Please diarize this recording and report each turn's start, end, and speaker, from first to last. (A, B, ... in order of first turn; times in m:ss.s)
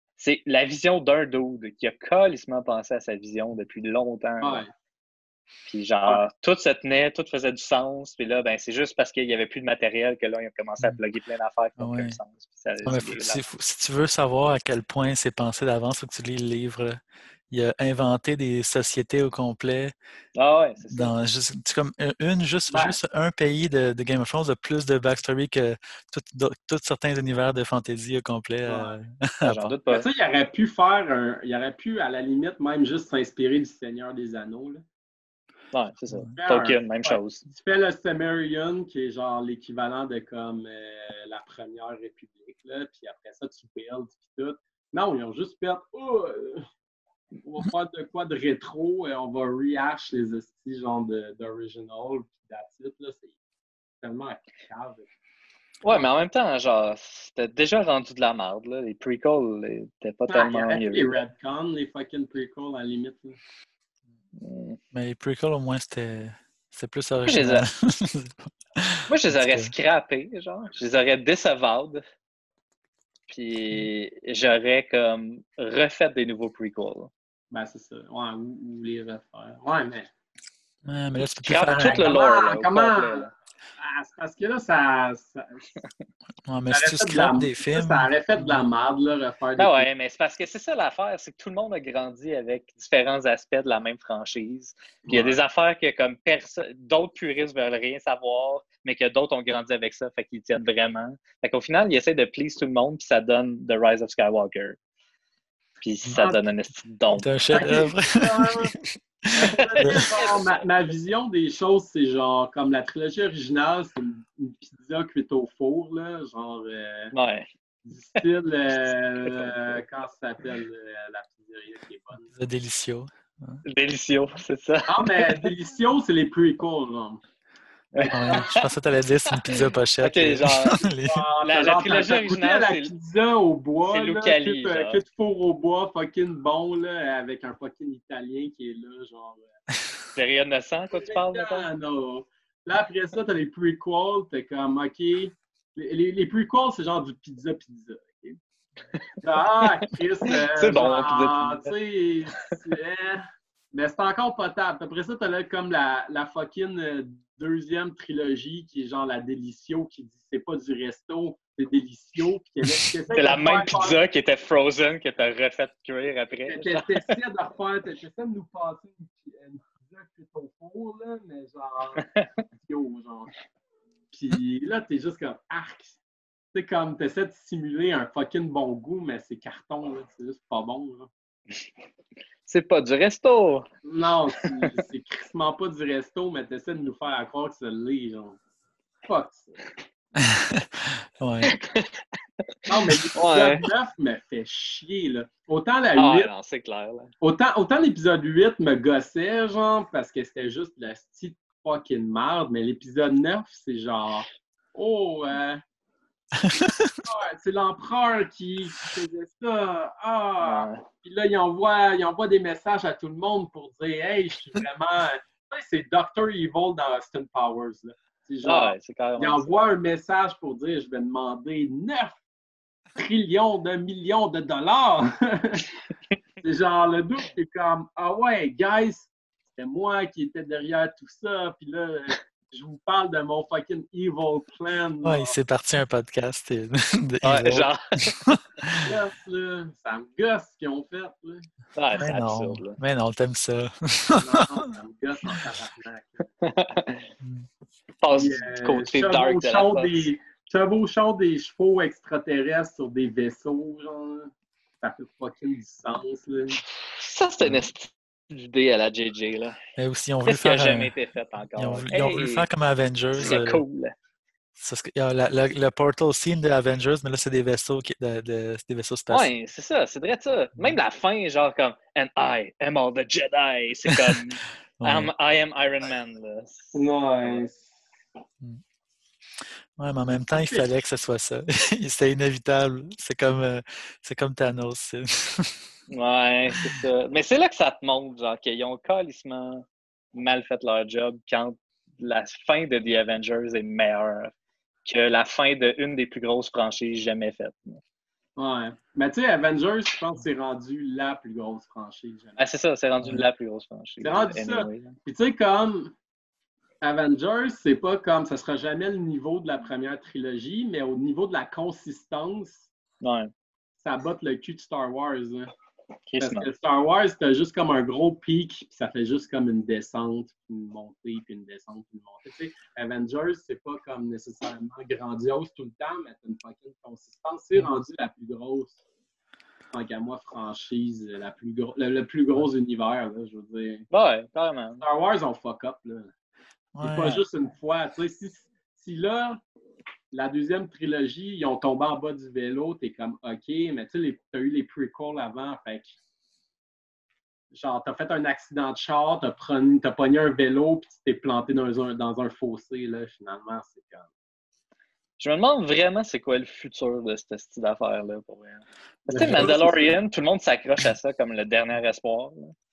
0:00.2-0:04.6 A
0:04.4-0:04.7 B
0:05.6-0:13.4 A
0:11.8-0:12.2 C
0:12.8-0:17.0 C
0:17.5-0:19.9 C
0:20.3-0:21.1 A
0:20.9-0:29.7 C
0:22.7-0:23.0 B
0:28.7-0:29.0 B
0:29.4-0:30.1 A
0:29.9-0:34.8 B
0:35.7-0:37.5 A
0:36.4-0:46.6 B
0:47.4-0:53.3 B
0:54.0-0:55.1 B
0:55.8-1:01.2 A
1:00.3-1:03.4 B
1:04.4-1:04.8 A
1:04.9-1:09.7 C
1:07.2-1:07.7 A
1:09.1-1:12.0 A
1:13.3-1:17.1 A
1:17.5-1:20.1 B
1:20.8-1:22.1 C
1:21.4-1:23.3 A
1:21.9-1:23.3 B
1:23.8-1:25.7 B
1:26.5-1:28.6 C
1:26.7-1:29.9 B
1:29.6-1:44.8 A
1:35.1-1:35.4 B
1:45.8-1:47.8 A
1:47.1-1:48.8 C
1:47.5-1:48.7 B
1:49.3-1:57.1 B
1:49.4-1:50.4 A
1:57.1-1:57.5 A
1:57.8-2:02.3 B
1:58.8-1:59.8 A
2:02.3-2:03.6 C
2:03.7-2:05.5 A
2:04.9-2:07.2 B
2:07.9-2:08.6 A
2:08.0-2:08.5 B
2:08.1-2:11.2 C
2:10.0-2:10.8 A
2:11.0-2:19.5 B
2:11.4-2:12.9 A
2:13.9-2:15.0 A
2:20.2-2:21.7 A
2:20.9-2:28.4 B
2:29.2-2:44.0 B
2:30.5-2:31.7 A
2:43.1-2:47.1 A
2:46.5-2:52.0 B
2:52.0-2:52.3 A
2:52.6-2:53.3 B
2:54.1-2:56.0 B
2:56.5-3:01.1 B
3:02.5-3:03.6 A
3:03.9-3:08.4 B
3:04.4-3:04.7 A
3:09.1-3:09.6 B
3:10.2-3:11.5 C
3:11.5-3:12.0 A
3:12.7-3:16.3 B
3:13.1-3:13.6 A
3:15.9-3:17.1 A
3:17.2-3:25.6 B
3:26.4-3:26.9 C
3:27.1-3:42.1 B
3:30.4-3:30.8 A
3:38.4-3:39.7 A
3:43.0-3:45.6 B
3:46.4-3:55.3 B
3:55.0-3:58.9 C
3:57.2-3:57.8 A
3:58.8-4:01.5 B
4:01.8-4:02.8 A
4:02.0-4:04.6 C
4:04.2-4:06.2 B
4:06.4-4:07.0 A
4:07.2-4:07.5 C
4:08.0-4:10.1 A
4:08.1-4:16.6 B
4:17.0-4:19.6 A
4:19.8-4:20.9 C
4:20.2-4:22.5 A
4:21.5-4:23.6 C
4:23.2-4:23.9 A
4:24.6-4:29.3 C
4:29.1-4:37.4 A
4:33.9-4:34.1 C
4:34.8-4:35.1 C
4:36.7-4:37.8 B
4:39.8-4:45.6 C
4:40.3-4:40.7 B
4:45.9-4:54.3 A
4:54.9-4:57.8 A
4:58.4-5:02.4 B
5:02.4-5:04.9 A
5:03.0-5:03.3 C
5:04.0-5:05.9 B
5:06.8-5:12.7 B
5:13.0-5:13.3 A
5:13.8-5:15.5 B
5:16.1-5:16.5 A
5:16.2-5:28.8 B
5:29.7-5:33.9 B
5:33.9-5:34.9 A
5:34.8-5:36.1 B
5:36.7-5:37.2 C
5:36.8-5:39.4 B
5:40.1-5:45.9 B
5:47.5-5:54.1 B
5:55.2-6:02.5 A
5:59.1-5:59.9 B